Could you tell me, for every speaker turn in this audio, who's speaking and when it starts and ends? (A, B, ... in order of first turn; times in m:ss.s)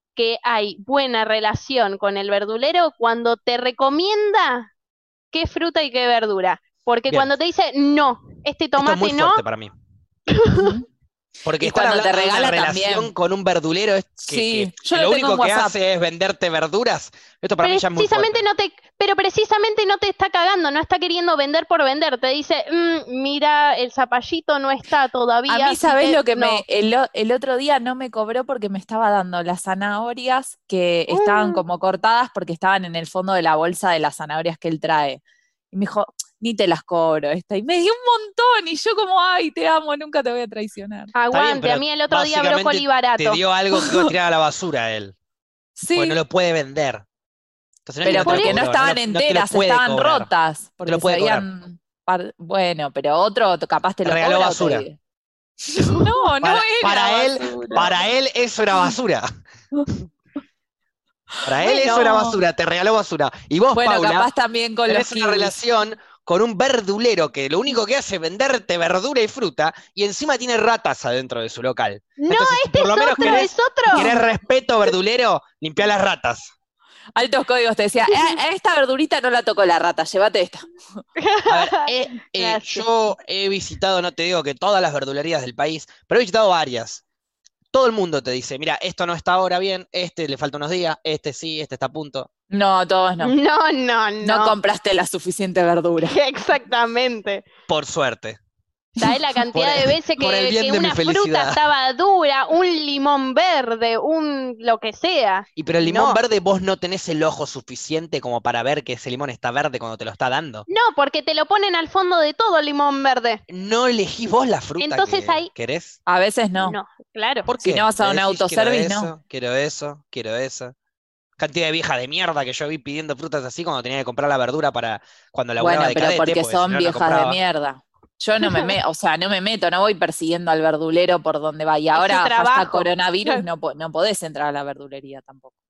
0:00.2-0:04.7 A
0:05.3-0:09.4 A
0:08.8-0:09.7 B
0:10.3-0:10.7 A
0:10.5-0:10.9 C
0:11.4-0:18.4 B
0:11.6-0:13.1 C
0:14.2-0:15.8 C
0:17.6-0:26.6 A
0:25.5-0:41.1 C
0:31.1-0:31.6 A
0:41.2-0:43.4 A
0:41.3-0:45.2 B
0:45.8-0:46.2 C
0:45.9-0:47.0 B
0:47.9-0:50.3 B
0:48.0-0:55.0 C
0:48.1-0:48.6 A
0:50.9-0:51.4 B
0:54.0-0:54.8 B
0:55.7-0:57.9 C
0:55.8-0:56.1 A
0:56.4-0:59.3 B
1:01.4-1:04.3 B
1:01.6-1:02.2 A
1:01.6-1:02.4 C
1:03.7-1:05.5 C
1:04.9-1:16.5 B
1:12.2-1:14.2 A
1:17.2-1:20.6 C
1:21.2-1:22.9 A
1:21.5-1:27.0 B
1:27.7-1:32.3 B
1:32.5-1:33.3 C
1:33.2-1:34.6 A
1:34.2-1:36.2 C
1:36.0-1:37.5 A
1:37.7-1:38.4 B
1:39.0-1:46.2 A
1:39.5-1:41.6 B
1:45.6-1:50.7 B
1:50.7-1:53.4 A
1:53.5-1:56.0 B
1:54.8-1:55.5 A
1:56.1-1:56.8 C
1:56.6-1:57.5 A
1:57.5-2:00.7 B
1:57.6-1:59.1 C
2:01.4-2:07.4 B
2:05.6-2:15.5 C
2:08.4-2:08.7 A
2:12.0-2:13.4 A